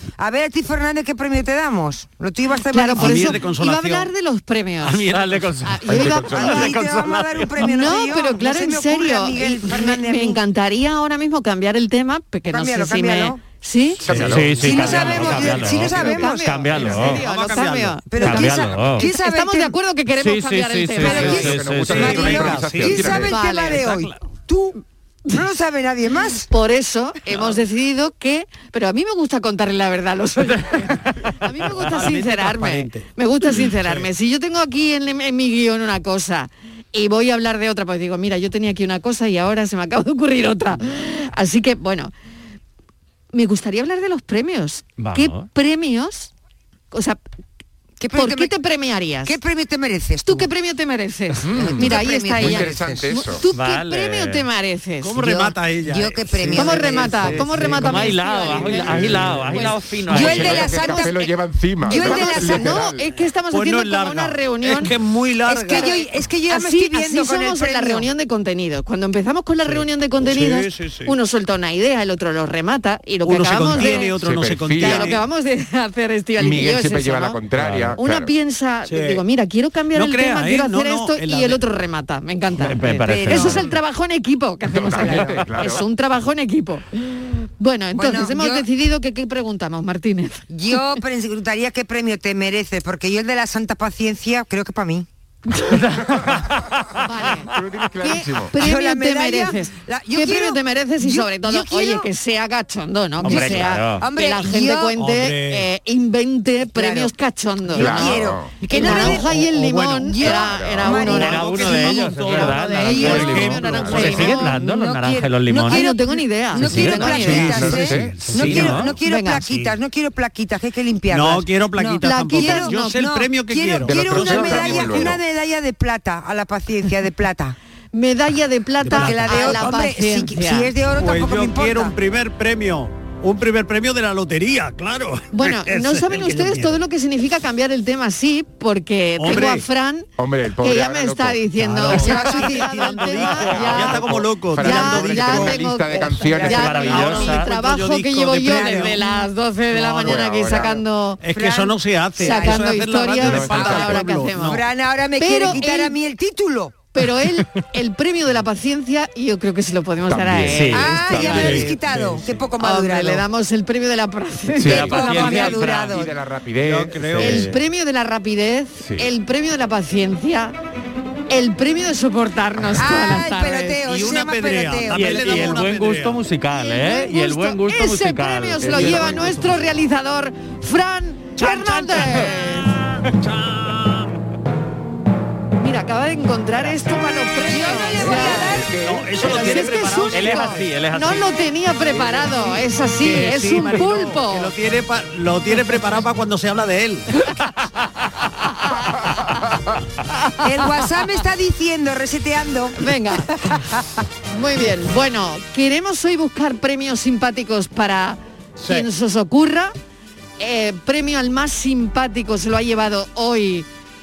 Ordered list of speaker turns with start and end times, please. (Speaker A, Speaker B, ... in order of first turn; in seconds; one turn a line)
Speaker A: 0.2-3.4
Speaker B: 2.7-6.8
Speaker C: 3.0-4.1
Speaker C: 4.8-5.6
Speaker D: 5.1-7.0
Speaker E: 5.9-6.7
Speaker A: 6.3-10.4
Speaker B: 7.6-14.2
Speaker A: 12.5-13.4
Speaker E: 14.0-14.6
Speaker D: 14.1-17.3
Speaker C: 14.1-15.2
Speaker A: 14.5-16.8
Speaker B: 14.9-21.6
Speaker C: 16.7-18.6
Speaker A: 18.1-19.8
Speaker D: 18.1-19.1
Speaker D: 20.1-22.2
Speaker A: 21.0-26.5
Speaker E: 21.0-23.3
Speaker C: 21.9-24.1
Speaker B: 23.2-23.9
Speaker B: 26.5-42.1
Speaker C: 31.6-34.1
Speaker B: 43.3-46.3
Speaker D: 45.0-45.5
Speaker B: 46.9-47.2
Speaker A: 48.0-48.5
Speaker B: 48.1-49.4
Speaker A: 49.2-50.5
Speaker B: 50.2-55.2
Speaker E: 51.4-53.4
Speaker A: 51.6-53.1
Speaker D: 53.5-54.5
Speaker C: 55.0-59.8
Speaker A: 55.2-57.5
Speaker B: 56.5-59.9
Speaker D: 57.8-60.8
Speaker E: 60.1-63.1
Speaker A: 60.1-61.3
Speaker A: 61.9-62.9
Speaker B: 61.9-64.9
Speaker C: 63.5-66.0
Speaker A: 65.5-68.1
Speaker B: 65.7-74.2
Speaker C: 69.7-71.2
Speaker C: 73.2-75.2
Speaker E: 73.8-75.2
Speaker B: 74.8-77.4
Speaker E: 76.4-78.3
Speaker D: 77.6-78.0
Speaker B: 78.0-90.4
Speaker C: 78.9-79.2
Speaker C: 79.9-81.6
Speaker D: 82.6-83.6
Speaker A: 83.0-83.7
Speaker E: 84.7-85.8
Speaker A: 87.9-88.7
Speaker A: 90.5-95.1
Speaker D: 95.7-96.6
Speaker B: 97.0-114.6
Speaker E: 97.4-98.5
Speaker A: 98.5-102.1
Speaker D: 103.2-104.0
Speaker A: 103.2-105.0
Speaker C: 105.0-105.7
Speaker A: 106.8-107.1
Speaker A: 107.7-109.5
Speaker E: 107.8-108.6
Speaker C: 108.7-110.2
Speaker A: 110.0-112.1
Speaker E: 110.2-111.0
Speaker D: 111.0-115.9
Speaker C: 111.2-114.2
Speaker E: 113.0-114.2
Speaker A: 113.9-127.6
Speaker B: 115.6-117.5
Speaker D: 116.7-117.7
Speaker E: 116.7-118.2
Speaker C: 116.8-119.7
Speaker D: 118.2-118.9
Speaker B: 119.0-119.5
Speaker C: 121.1-125.0
Speaker B: 122.0-123.0
Speaker E: 123.8-125.2
Speaker B: 127.9-130.7
Speaker C: 128.8-129.9
Speaker A: 128.9-131.9
Speaker C: 131.0-136.8
Speaker B: 135.3-140.1
Speaker C: 139.2-139.7
Speaker E: 140.2-141.4
Speaker B: 140.6-151.2
Speaker C: 141.6-145.6
Speaker A: 141.9-143.6
Speaker E: 143.4-147.0
Speaker A: 146.0-147.1
Speaker D: 146.4-147.5
Speaker C: 146.9-149.1
Speaker A: 148.4-149.0
Speaker C: 149.7-150.3
Speaker E: 150.0-150.8
Speaker C: 151.2-154.5
Speaker A: 151.3-152.7
Speaker B: 152.2-154.6
Speaker E: 153.2-154.1
Speaker A: 154.3-156.8
Speaker B: 155.2-155.9
Speaker B: 156.9-161.8
Speaker E: 160.1-161.5
Speaker D: 160.5-161.1
Speaker A: 160.7-163.2
Speaker C: 161.2-162.2
Speaker B: 162.6-165.3
Speaker E: 164.6-167.1
Speaker D: 164.6-166.0
Speaker A: 164.7-166.1
Speaker C: 166.6-167.5
Speaker D: 167.1-167.6
Speaker B: 167.2-170.6
Speaker E: 168.8-169.1
Speaker B: 171.3-173.8
Speaker A: 172.7-175.6
Speaker C: 173.8-176.2
Speaker D: 174.9-179.2
Speaker B: 176.5-182.7
Speaker E: 178.6-179.4
Speaker C: 181.4-182.3
Speaker C: 183.3-184.0
Speaker B: 185.6-188.6
Speaker A: 187.4-188.8
Speaker E: 188.0-189.1
Speaker C: 188.3-190.7
Speaker B: 189.2-194.5
Speaker D: 190.1-191.4
Speaker C: 191.9-197.1
Speaker A: 200.4-202.9
Speaker B: 202.8-203.3
Speaker B: 204.3-209.7
Speaker C: 208.6-208.9
Speaker B: 210.4-213.7